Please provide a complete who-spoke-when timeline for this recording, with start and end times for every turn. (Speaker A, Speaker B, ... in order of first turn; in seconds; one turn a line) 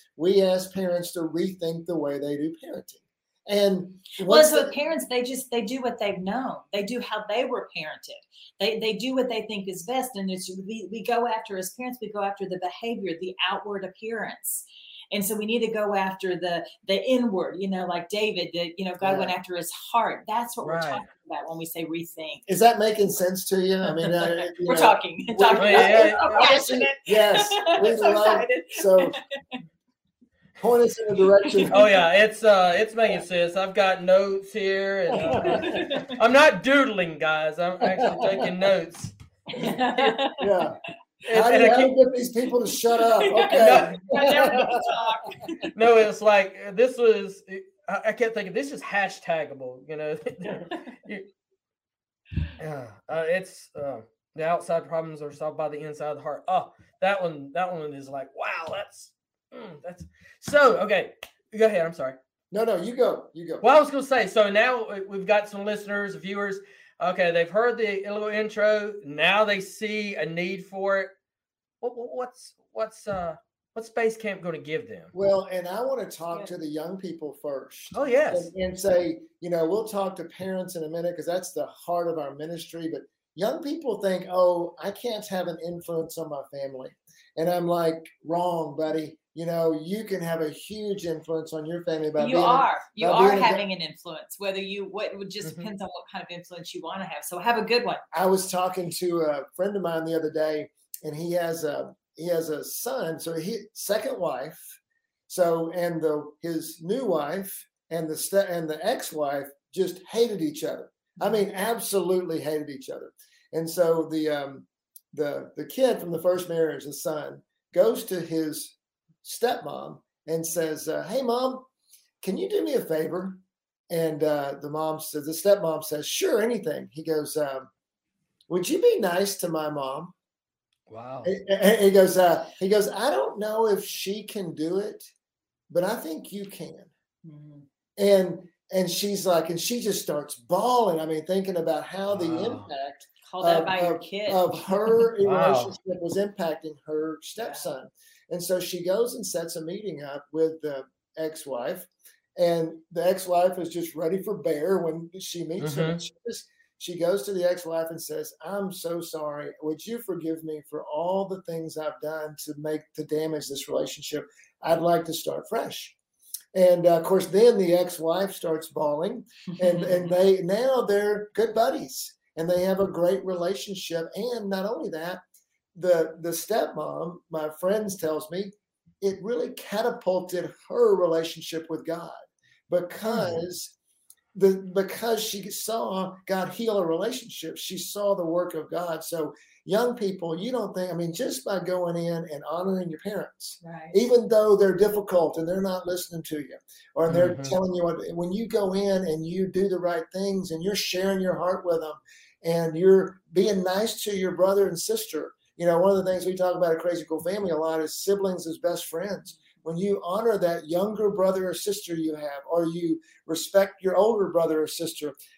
Speaker A: 0.2-4.7
Speaker B: 4.2-22.4
Speaker A: 19.0-19.3
Speaker C: 20.6-21.1
Speaker A: 22.5-29.2
Speaker B: 23.9-29.6
Speaker C: 25.6-26.5
Speaker A: 30.6-31.9
Speaker C: 31.7-39.1
Speaker A: 35.1-35.8
Speaker B: 35.2-36.2
Speaker A: 37.8-38.5
Speaker B: 39.5-40.4
Speaker A: 40.4-40.8
Speaker C: 41.3-41.9
Speaker A: 41.3-44.8
Speaker B: 43.1-45.7
Speaker C: 43.5-44.4
Speaker C: 45.7-51.3
Speaker C: 52.6-62.2
Speaker A: 62.5-63.6
Speaker C: 63.6-71.1
Speaker C: 71.8-75.1
Speaker A: 75.1-93.6
Speaker C: 77.9-78.5
Speaker B: 92.2-98.0
Speaker A: 98.1-104.8
Speaker A: 105.3-121.7
Speaker A: 122.2-127.7
Speaker A: 128.5-130.1
Speaker C: 130.9-131.3
Speaker A: 131.2-135.1
Speaker A: 135.7-136.9
Speaker B: 137.2-137.7
Speaker A: 138.0-165.9
Speaker C: 142.1-142.7
Speaker B: 143.3-145.0
Speaker C: 145.2-145.8
Speaker B: 147.4-147.7
Speaker C: 155.6-156.0
Speaker A: 166.5-175.2
Speaker B: 169.6-170.1
Speaker A: 175.7-183.7
Speaker C: 183.1-183.4
Speaker A: 184.3-215.2
Speaker B: 193.6-194.0
Speaker C: 197.1-197.6